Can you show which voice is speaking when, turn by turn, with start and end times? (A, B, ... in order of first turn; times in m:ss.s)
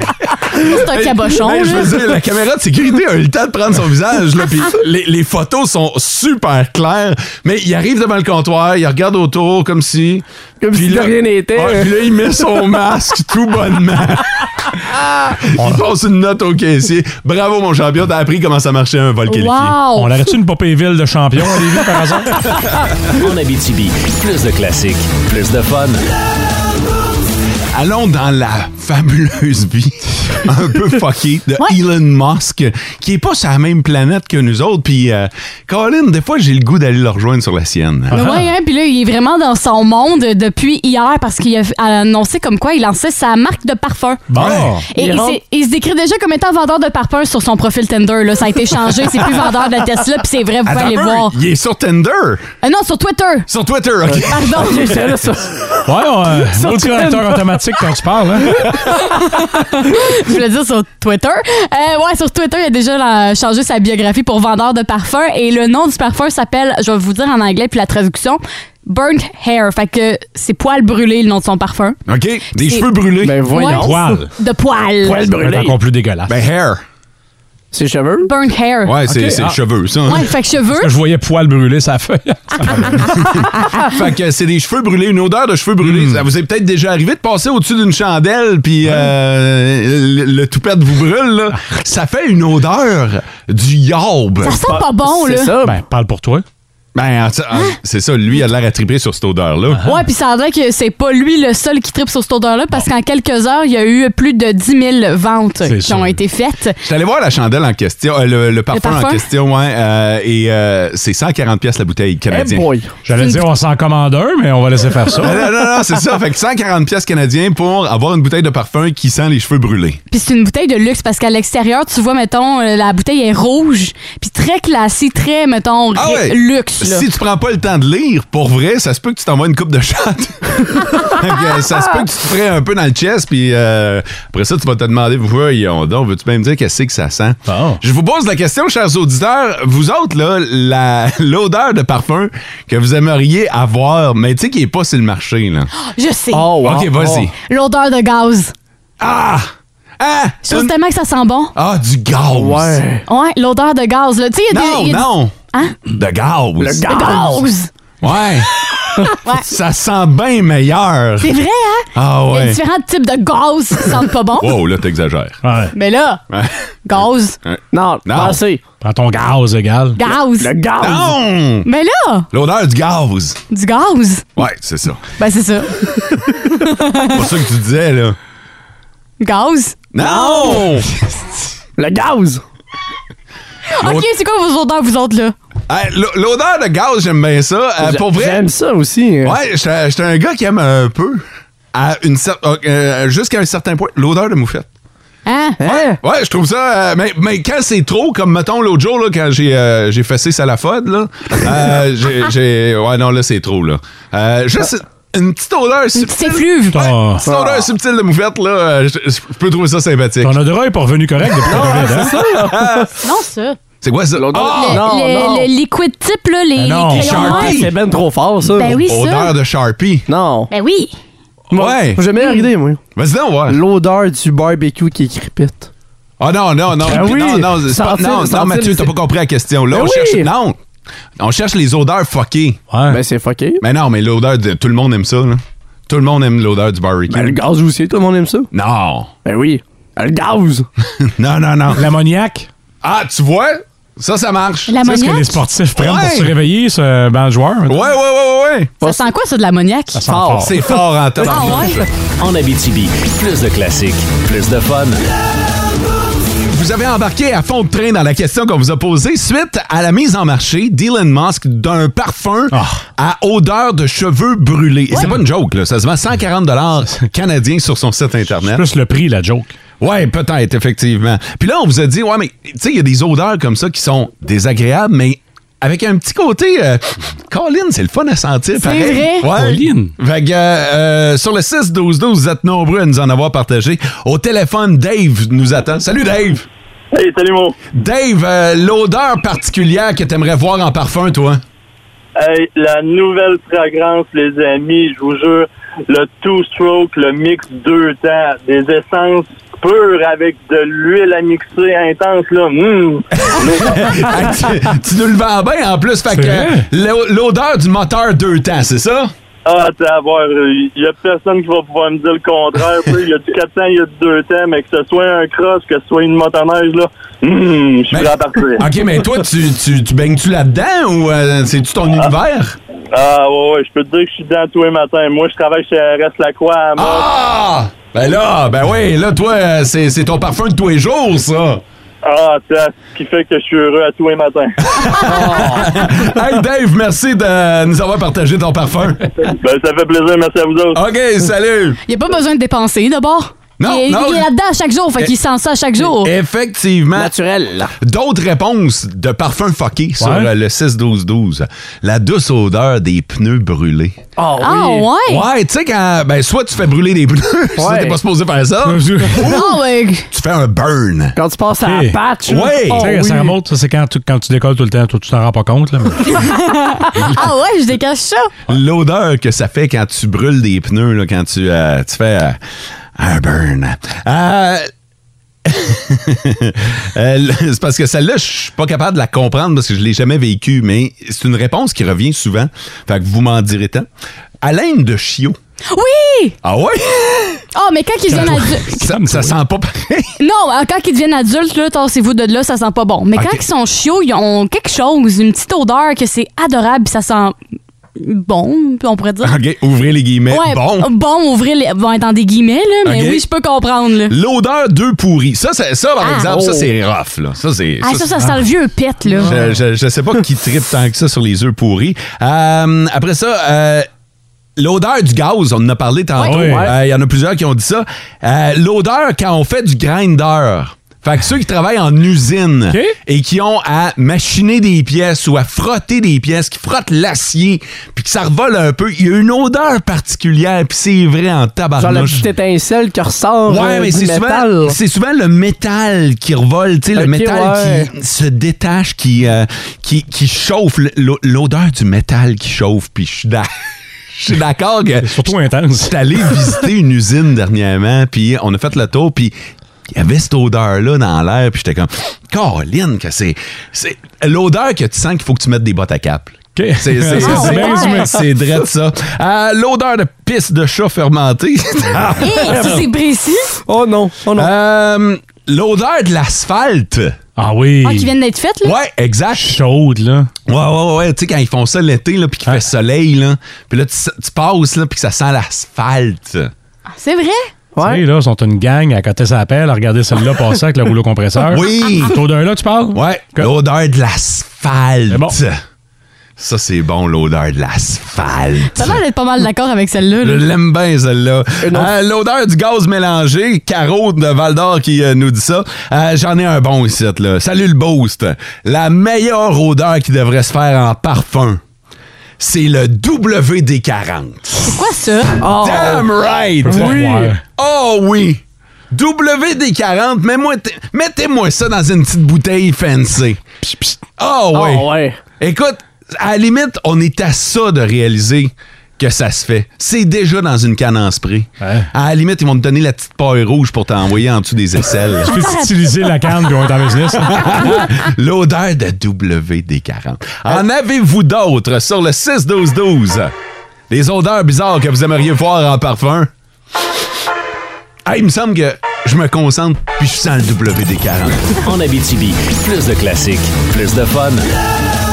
0:00.5-0:19.8 A
0:00.6-0:02.0 B
0:10.6-0:12.0 C
0:15.6-0:15.8 D
0:19.3-0:20.1 B
0:20.0-0:22.4 D
0:23.2-0:26.1 E
0:27.7-0:38.2 A
0:38.1-0:44.4 B
0:38.1-0:38.5 D
0:44.3-0:44.9 D
0:44.4-0:44.8 A
0:44.9-0:45.4 C
0:44.9-0:51.4 B
0:50.7-0:52.4 A
0:52.6-0:53.5 B
0:53.5-0:55.0 A
0:54.1-0:55.7 C
0:54.2-0:54.9 B
0:55.9-0:58.6 D
0:56.4-0:57.9 C
0:59.0-1:12.0 B
1:12.1-1:13.4 A
1:12.5-1:12.9 B
1:13.2-1:14.0 C
1:13.5-1:15.2 B
1:13.7-1:14.3 D
1:15.0-1:15.8 C
1:15.3-1:16.4 D
1:16.3-1:16.8 A
1:17.7-1:18.3 C
1:18.2-1:19.0 B
1:18.8-1:20.3 A
1:19.1-1:19.6 D
1:20.1-1:20.9 B
1:20.7-1:23.5 D
1:23.3-1:34.6 A
1:25.8-1:26.2 D
1:34.4-1:35.5 B
1:34.7-1:35.8 C
1:35.6-1:36.4 D
1:37.0-1:39.8 A
1:39.7-1:40.0 D
1:39.8-1:46.8 B
1:45.6-1:46.2 D
1:46.8-1:52.7 A
1:48.7-1:49.2 B
1:52.3-1:52.9 C
1:53.0-1:55.4 D
1:53.2-1:53.5 B
1:55.2-2:00.0 A
2:00.1-2:07.1 B
2:06.0-2:25.7 A
2:17.5-2:17.8 D
2:25.8-2:26.5 B
2:26.3-2:27.3 C
2:26.6-2:27.3 A
2:27.4-2:28.5 B
2:29.0-2:30.7 A
2:30.4-2:31.6 B
2:31.6-2:32.8 A
2:32.3-2:33.0 C
2:33.1-2:35.8 B
2:34.5-2:35.3 A
2:36.0-2:36.9 A
2:36.6-2:37.5 C
2:36.9-2:37.7 B
2:38.0-2:38.5 A
2:39.2-2:39.5 B
2:39.4-2:41.3 A
2:41.2-2:44.6 B
2:42.0-2:42.6 A
2:44.4-2:45.4 A
2:45.4-2:45.7 D
2:45.7-2:46.2 B
2:46.3-2:46.6 A
2:46.9-2:47.4 B
2:47.4-2:48.4 A
2:47.7-2:48.6 C
2:48.8-2:50.0 D
2:50.0-2:50.5 B
2:50.4-2:51.2 C
2:50.8-2:51.7 A
2:51.6-2:52.3 B
2:52.3-2:53.4 A
2:53.5-2:54.2 B
2:54.4-2:55.0 A
2:55.2-2:57.2 B
2:57.1-2:58.2 A
2:59.2-2:59.8 B
2:59.9-3:00.9 A
3:00.0-3:00.8 C
3:01.8-3:02.4 C
3:03.7-3:05.4 B
3:03.8-3:04.1 A
3:05.7-3:08.5 A
3:07.8-3:09.4 C
3:09.2-3:14.7 A
3:15.3-3:15.6 B
3:15.6-3:16.0 C
3:15.6-3:30.4 A
3:26.0-3:26.8 B
3:26.7-3:27.2 D
3:27.2-3:27.7 C
3:30.2-3:32.3 D
3:31.4-3:32.8 C
3:31.5-3:32.9 A
3:33.0-3:33.6 B
3:33.8-3:34.8 A
3:34.2-3:35.5 C
3:34.3-3:37.6 B
3:36.6-3:37.3 D
3:36.9-3:37.7 A
3:37.1-3:38.8 C
3:38.6-3:39.3 B
3:38.8-3:40.1 A
3:40.1-3:40.5 C
3:40.5-3:41.0 B
3:41.5-3:42.0 A
3:41.5-3:42.8 C
3:42.2-3:42.5 B
3:43.0-3:43.6 A
3:43.5-3:45.7 C
3:46.2-3:50.6 A
3:46.8-3:48.9 C
3:49.7-3:50.3 C
3:51.2-3:52.6 A
3:52.7-3:53.0 D
3:52.9-3:53.6 C
3:53.6-3:57.4 A
3:57.1-3:58.5 C
3:58.5-3:59.1 A
3:59.2-4:00.7 C
4:01.0-4:01.9 A
4:01.7-4:02.5 D
4:02.8-4:04.9 A
4:04.7-4:05.4 B
4:04.8-4:07.8 D
4:05.8-4:06.4 A
4:07.7-4:08.7 A
4:08.8-4:09.1 C
4:08.8-4:10.0 B
4:10.0-4:10.6 D
4:10.1-4:11.7 C
4:10.3-4:11.9 A
4:11.2-4:11.8 B
4:12.2-4:15.1 E
4:16.5-4:28.6 A
4:22.5-4:22.8 D
4:28.4-4:29.6 D
4:29.8-4:46.5 A
4:38.6-4:39.3 B
4:39.3-4:39.9 D
4:46.9-4:47.6 F
4:47.7-4:51.4 A
4:52.2-5:03.8 F
5:03.2-5:09.1 A
5:06.1-5:06.6 D
5:09.4-5:18.7 F
5:17.9-5:22.6 A
5:22.9-5:27.1 F
5:26.8-5:31.6 A
5:32.0-5:34.8 F
5:34.7-5:39.1 A
5:35.2-5:35.7 C
5:39.3-5:40.8 F
5:40.7-5:41.8 A
5:41.9-5:46.1 B
5:43.6-5:44.3 A
5:46.0-5:47.1 A
5:46.9-5:47.7 C
5:47.8-5:54.0 A
5:50.0-5:50.3 D
5:54.2-5:54.9 C
5:54.4-5:55.2 B
5:55.1-5:59.5 A
5:57.6-5:58.0 C
5:58.6-5:59.3 D
5:59.2-6:00.1 B
6:00.1-6:01.2 A
6:01.2-6:03.4 C
6:01.6-6:02.1 D
6:02.3-6:03.0 A
6:02.6-6:06.3 D
6:06.1-6:08.3 B
6:08.5-6:12.4 A
6:13.0-6:14.7 A
6:15.4-6:23.9 A
6:24.4-6:25.4 A
6:25.7-6:26.4 B
6:26.4-6:27.4 A
6:27.5-6:28.8 B
6:28.1-6:29.3 D
6:28.6-6:30.2 A
6:30.2-6:37.4 B
6:33.2-6:33.4 A
6:38.0-6:39.4 B
6:39.2-6:40.9 A
6:40.3-6:44.1 B
6:42.8-6:43.2 A
6:44.1-6:48.2 A
6:46.0-6:46.3 B
6:46.3-6:46.6 C
6:47.8-6:49.3 B
6:49.2-6:53.9 A
6:54.6-7:12.3 A
6:56.2-6:56.7 D
6:56.3-6:56.7 C
7:02.7-7:03.0 D
7:11.8-7:14.8 C
7:13.5-7:23.5 A
7:17.0-7:17.9 C
7:24.1-7:29.3 A
7:25.0-7:25.9 D
7:29.9-7:42.5 A
7:36.6-7:38.2 D
7:37.2-7:38.0 B
7:42.2-7:43.6 B
7:42.5-7:42.9 C
7:43.7-7:44.5 C
7:44.3-7:47.2 A
7:47.4-7:48.1 D
7:47.8-7:48.8 B
7:48.6-7:49.6 A
7:49.3-7:50.3 D
7:50.5-7:56.5 A
7:57.0-7:57.5 B
7:57.8-7:58.0 C
7:57.8-8:03.5 D
8:01.5-8:02.2 A
8:02.9-8:05.6 A
8:05.1-8:05.4 D
8:06.4-8:09.0 A
8:08.7-8:10.4 B
8:10.2-8:21.6 A
8:11.6-8:11.9 C
8:22.4-8:24.7 A
8:24.6-8:25.4 B
8:25.4-8:26.1 C
8:25.4-8:27.0 A
8:26.6-8:27.4 D
8:26.7-8:27.4 C
8:27.6-8:33.4 A
8:34.2-8:45.4 A
8:34.5-8:35.2 C
8:41.6-8:41.9 D
8:45.2-8:47.6 D
8:47.2-8:53.3 A
8:53.9-8:56.3 A
8:58.1-9:01.6 A
9:01.6-9:04.5 E